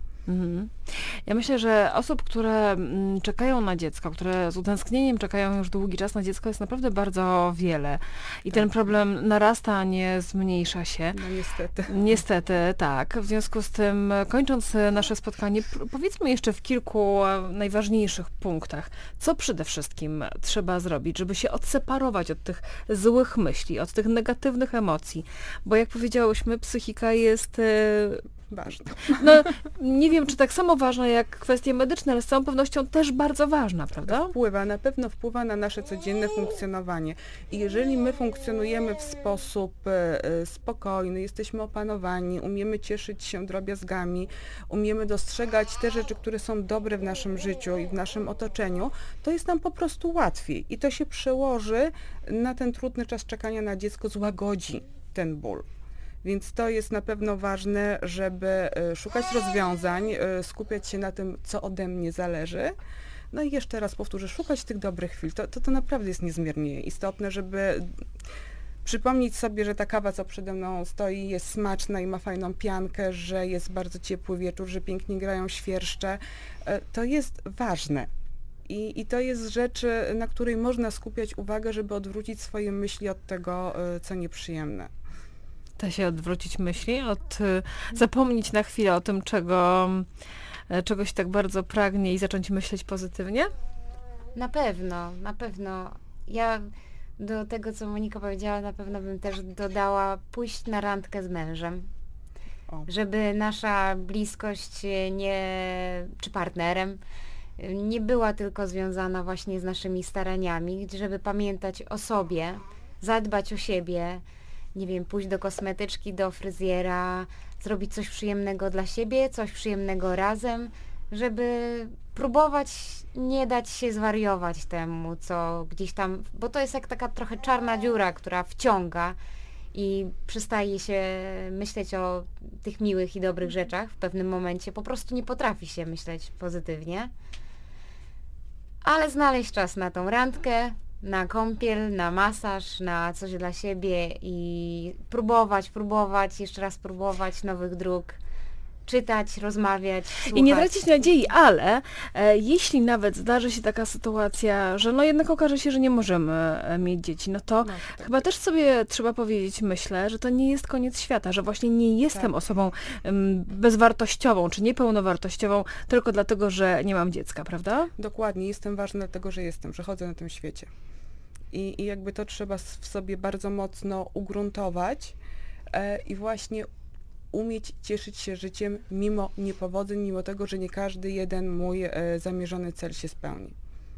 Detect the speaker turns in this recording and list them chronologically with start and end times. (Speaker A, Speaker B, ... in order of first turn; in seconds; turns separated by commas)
Speaker A: 0.3-11.2, Speaker B: 8.5-8.9, Speaker B: 11.1-12.0, Speaker A: 11.9-28.2, Speaker B: 28.5-29.4, Speaker A: 29.1-34.3, Speaker B: 34.1-55.6, Speaker B: 56.2-62.7, Speaker B: 63.3-67.9, Speaker B: 68.8-78.1, Speaker B: 78.7-84.9, Speaker A: 85.8-90.1, Speaker A: 90.7-93.5, Speaker C: 94.3-101.9, Speaker C: 102.9-107.0, Speaker C: 107.6-114.2, Speaker C: 114.7-129.2, Speaker C: 129.7-137.1, Speaker C: 138.8-148.2, Speaker C: 148.8-150.9, Speaker A: 150.3-167.9, Speaker B: 157.6-158.1, Speaker B: 168.0-170.7, Speaker B: 171.5-175.2, Speaker B: 175.7-176.7, Speaker B: 177.3-183.5